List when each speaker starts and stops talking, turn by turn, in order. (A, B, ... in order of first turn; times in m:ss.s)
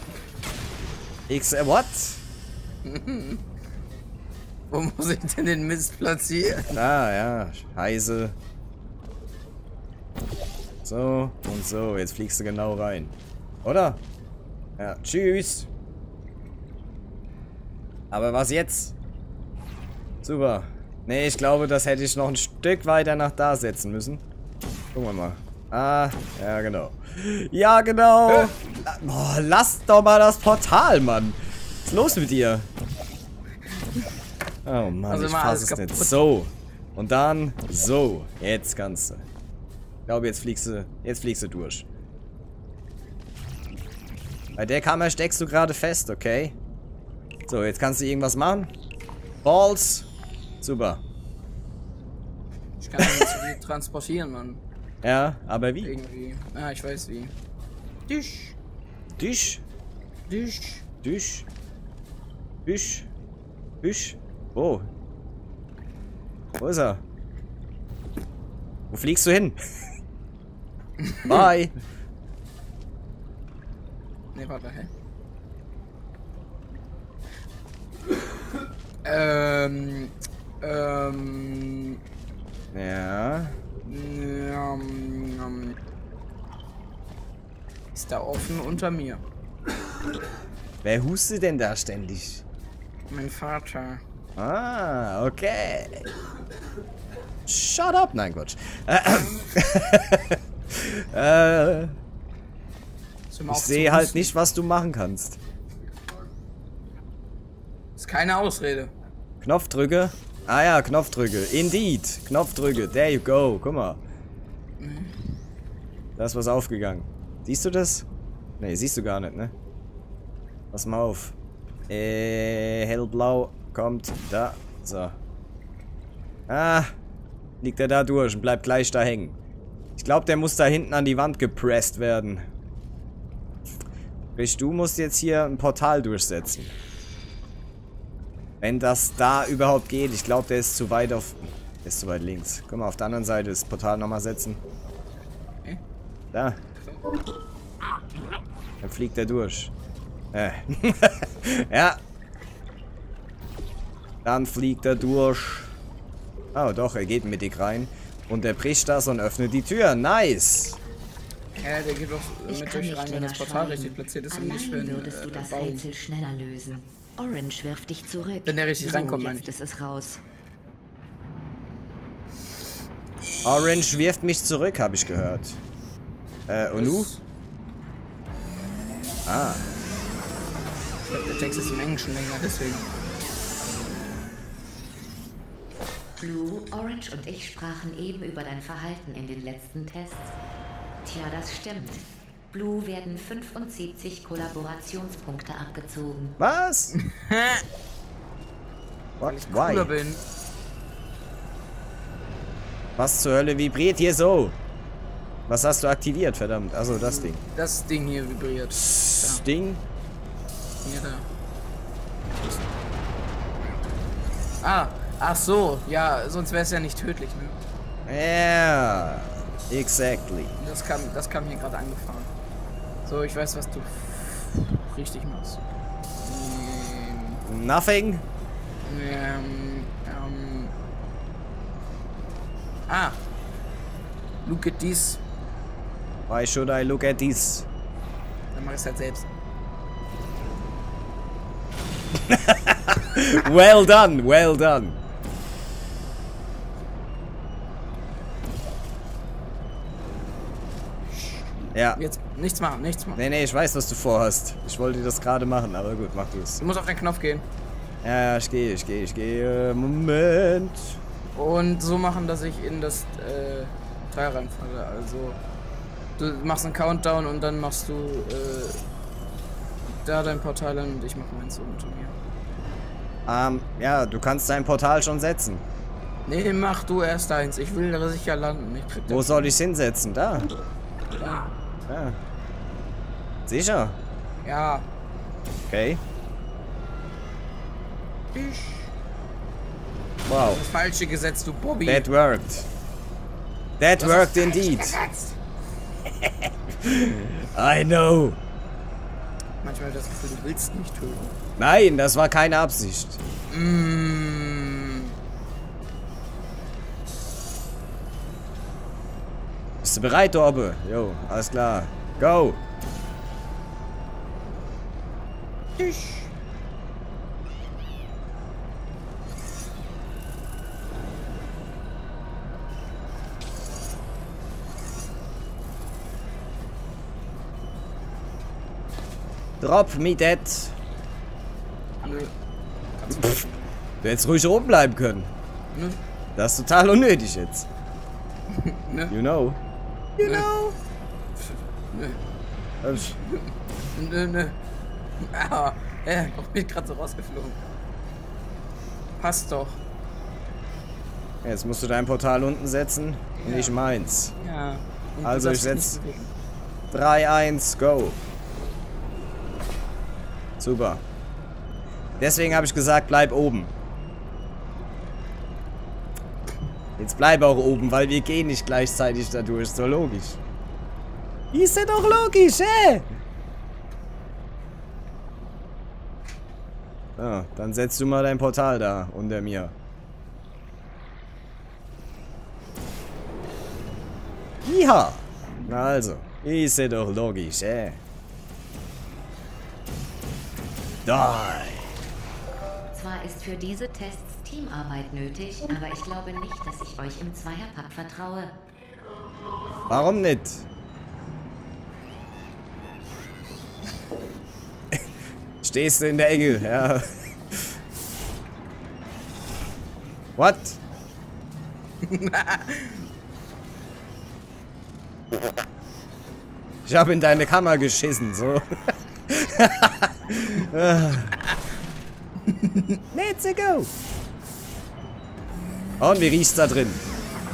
0:01.3-0:02.2 A
0:02.8-0:03.4 B
0:04.7-0:06.8 B
0:06.7-0:08.4 A
0:10.8-0:14.0 A
0:14.8-0:15.7 A
0:18.1-0:19.0 A
0:20.2-0:24.2 A
0:24.9-0:32.7 A
0:34.6-0:39.2 A
0:35.1-0:36.2 B
0:40.1-0:41.9 A
0:44.6-0:46.6 A
0:47.5-0:48.7 A
0:49.4-0:50.1 A
0:50.6-0:51.0 A
0:52.8-0:54.6 B
0:53.0-0:53.4 A
0:55.0-0:55.9 A
0:55.8-0:57.3 B
0:58.1-0:58.6 B
0:59.2-0:59.6 A
1:00.3-1:00.8 B
1:01.0-1:01.5 A
1:02.7-1:03.1 A
1:03.8-1:04.9 A
1:06.6-1:07.0 A
1:08.9-1:09.6 A
1:11.0-1:11.4 B
1:11.3-1:11.7 A
1:14.3-1:14.9 B
1:19.0-1:22.0 B
1:22.7-1:23.6 A
1:23.8-1:25.8 B
1:27.9-1:29.2 B
1:30.8-1:32.4 A
1:33.1-1:34.0 B
1:34.4-1:36.1 A
1:37.5-1:42.0 A
1:43.3-1:44.3 B
1:43.5-1:45.4 A
1:48.0-1:48.9 B
1:49.4-1:54.0 A
1:54.8-1:55.2 B
1:56.2-1:58.1 A
1:58.6-1:59.5 A
2:00.7-2:01.4 A
2:01.9-2:05.2 A
2:06.5-2:06.9 A
2:07.6-2:09.4 A
2:10.0-2:12.5 A
2:14.4-2:16.7 A
2:18.6-2:24.6 A
2:26.3-2:26.6 A
2:28.8-2:29.7 A
2:30.3-2:32.0 A
2:34.2-2:35.7 A
2:36.5-2:40.8 A
2:41.6-2:45.9 B
2:42.5-2:50.2 C
2:48.5-2:49.5 B
2:53.4-2:55.6 A
2:56.5-2:57.1 A
2:56.7-2:57.2 B
2:59.3-2:59.7 A
3:01.1-3:02.9 B
3:06.2-3:10.3 C
3:11.0-3:16.4 C
3:16.4-3:16.9 A
3:16.9-3:17.6 B
3:19.2-3:20.0 A
3:19.2-3:20.2 B
3:23.0-3:24.6 A
3:25.5-3:27.4 A
3:26.9-3:29.4 B
3:29.2-3:29.8 A
3:30.8-3:31.3 B
3:34.6-3:37.6 B
3:38.1-3:40.6 A
3:40.6-3:42.3 B
3:43.1-3:45.6 B
3:46.2-3:47.4 B
3:47.5-3:48.2 A
3:48.8-3:50.7 B
3:52.9-3:53.2 B
3:54.4-3:55.2 B
3:56.3-3:57.7 A
3:58.5-3:59.3 B
4:02.3-4:05.0 A
4:11.1-4:13.3 B
4:11.7-4:12.0 A
4:13.2-4:16.6 A
4:16.6-4:17.4 B
4:18.0-4:21.0 A
4:21.4-4:25.4 B
4:26.2-4:28.8 B
4:30.0-4:32.2 B
4:33.3-4:35.6 A
4:36.3-4:39.5 B
4:39.1-4:40.5 A
4:41.2-4:41.5 B
4:41.9-4:42.2 A
4:43.5-4:44.0 A
4:44.4-4:44.9 B
4:45.7-4:46.0 A
4:48.3-4:48.9 B
4:50.3-4:50.6 A
4:50.4-4:52.1 B
4:51.9-4:52.7 A
4:53.8-4:55.0 A
4:54.0-4:55.4 B
4:56.2-4:58.4 A
4:59.6-5:01.4 B
5:01.6-5:03.2 A
5:03.5-5:05.1 B
5:09.8-5:12.6 A
5:15.8-5:16.3 B
5:29.6-5:30.8 A
5:32.0-5:32.3 B
5:33.0-5:33.6 B
5:34.0-5:35.3 A
5:35.7-5:36.0 B
5:36.4-5:37.7 A
5:38.5-5:39.2 B
5:39.1-5:39.6 A
5:40.2-5:40.8 A
5:40.2-5:40.5 B
5:41.9-5:42.2 B
5:42.8-5:43.2 A
5:43.2-5:44.6 B
5:45.2-5:47.6 B
5:49.2-5:49.8 B
5:51.4-5:54.3 A
5:53.4-5:53.8 B
5:54.4-5:56.3 B
5:55.2-5:56.0 A
5:56.9-5:58.2 A
6:00.6-6:01.0 A
6:02.2-6:03.7 A
6:07.0-6:10.4 A
6:11.5-6:13.1 A
6:17.2-6:19.7 A
6:24.6-6:28.0 A
6:31.1-6:32.0 A
6:32.9-6:38.6 C
6:39.9-6:40.6 A
6:45.6-6:47.7 A
6:50.4-6:50.8 A
6:52.0-6:53.1 B
6:56.9-6:58.6 A
6:59.3-7:01.4 A
7:02.4-7:03.0 B
7:03.1-7:03.9 A
7:06.0-7:07.0 A